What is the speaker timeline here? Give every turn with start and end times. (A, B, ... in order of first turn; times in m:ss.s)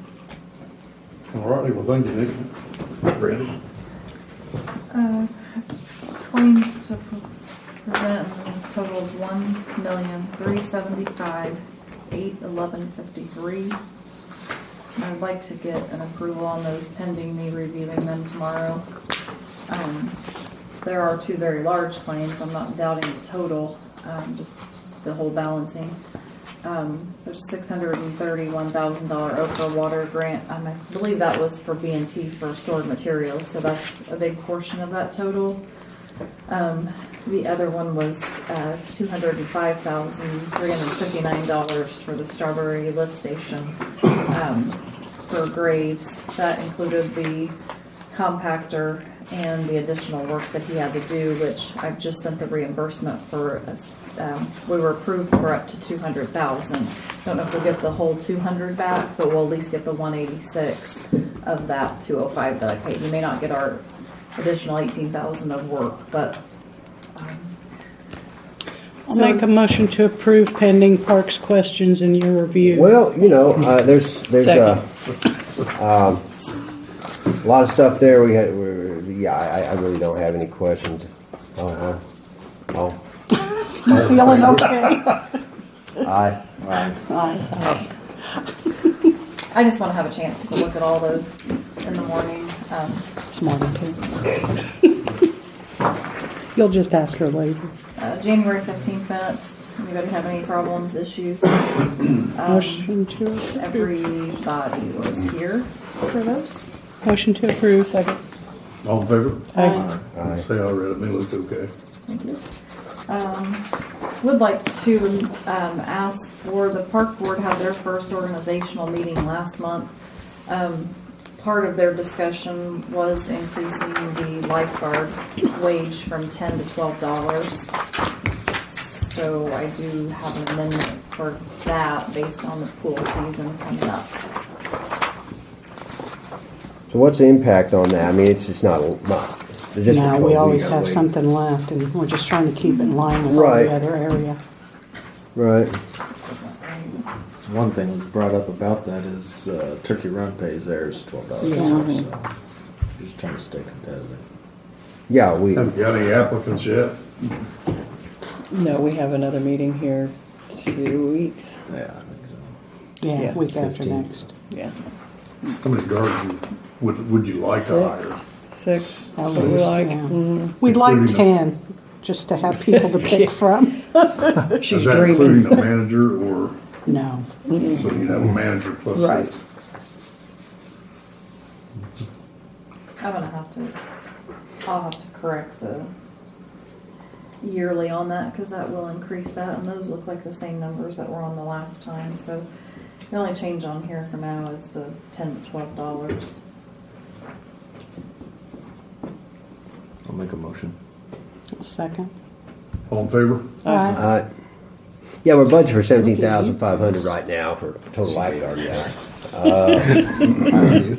0:01.3-0:02.5 A
0:03.1-0:03.6 A
0:04.9-0:07.2 B
0:07.8-0:13.8 B
0:15.0-0:18.9 B
0:19.7-0:20.2 B
0:20.8-0:26.0 B
0:26.6-0:35.6 B
0:36.5-0:47.5 B
0:48.1-1:03.8 B
1:04.4-1:06.4 B
1:07.2-1:07.6 B
1:09.1-1:12.9 C
1:09.1-1:09.5 B
1:12.6-1:14.8 D
1:14.4-1:14.8 E
1:15.7-1:16.3 D
1:17.4-1:22.0 D
1:22.7-1:23.0 D
1:23.9-1:25.1 C
1:23.9-1:24.5 D
1:26.0-1:26.9 D
1:27.1-1:27.9 C
1:29.5-1:33.1 B
1:33.3-1:34.1 C
1:36.5-1:37.7 C
1:38.0-1:42.9 B
1:42.5-1:43.9 C
1:43.5-1:46.7 B
1:47.0-1:47.9 C
1:47.8-1:48.2 E
1:48.8-1:49.6 A
1:49.5-1:49.8 E
1:49.6-1:49.9 C
1:50.1-1:50.4 D
1:50.2-1:51.7 A
1:52.1-1:52.4 B
1:53.1-1:53.7 B
1:54.2-1:59.9 B
2:00.5-2:07.7 B
2:08.6-2:14.1 B
2:16.9-2:21.1 D
2:19.9-2:24.4 C
2:23.3-2:23.7 D
2:25.4-2:25.8 D
2:26.1-2:27.0 B
2:27.4-2:32.3 F
2:31.4-2:31.9 C
2:31.6-2:32.0 E
2:33.0-2:34.2 F
2:35.1-2:35.7 D
2:35.6-2:37.0 A
2:38.5-2:41.6 E
2:41.7-2:42.5 F
2:43.0-2:44.3 C
2:43.2-2:43.4 E
2:43.4-2:44.2 F
2:44.5-2:44.8 E
2:45.6-2:48.2 A
2:47.5-2:50.6 E
2:49.2-2:54.6 C
2:50.8-2:51.2 A
2:52.7-2:53.3 E
2:54.4-2:55.7 E
2:54.7-2:56.6 A
2:56.9-2:57.3 C
2:57.5-2:57.9 E
2:57.7-2:59.4 A
2:58.9-2:59.3 E
3:03.0-3:03.8 B
3:04.7-3:05.9 B
3:07.4-3:12.5 B
3:13.1-3:16.4 B
3:20.0-3:20.8 F
3:21.6-3:22.1 C
3:22.9-3:23.6 A
3:23.6-3:24.0 E
3:23.6-3:24.0 C
3:23.9-3:24.3 D
3:25.2-3:30.4 D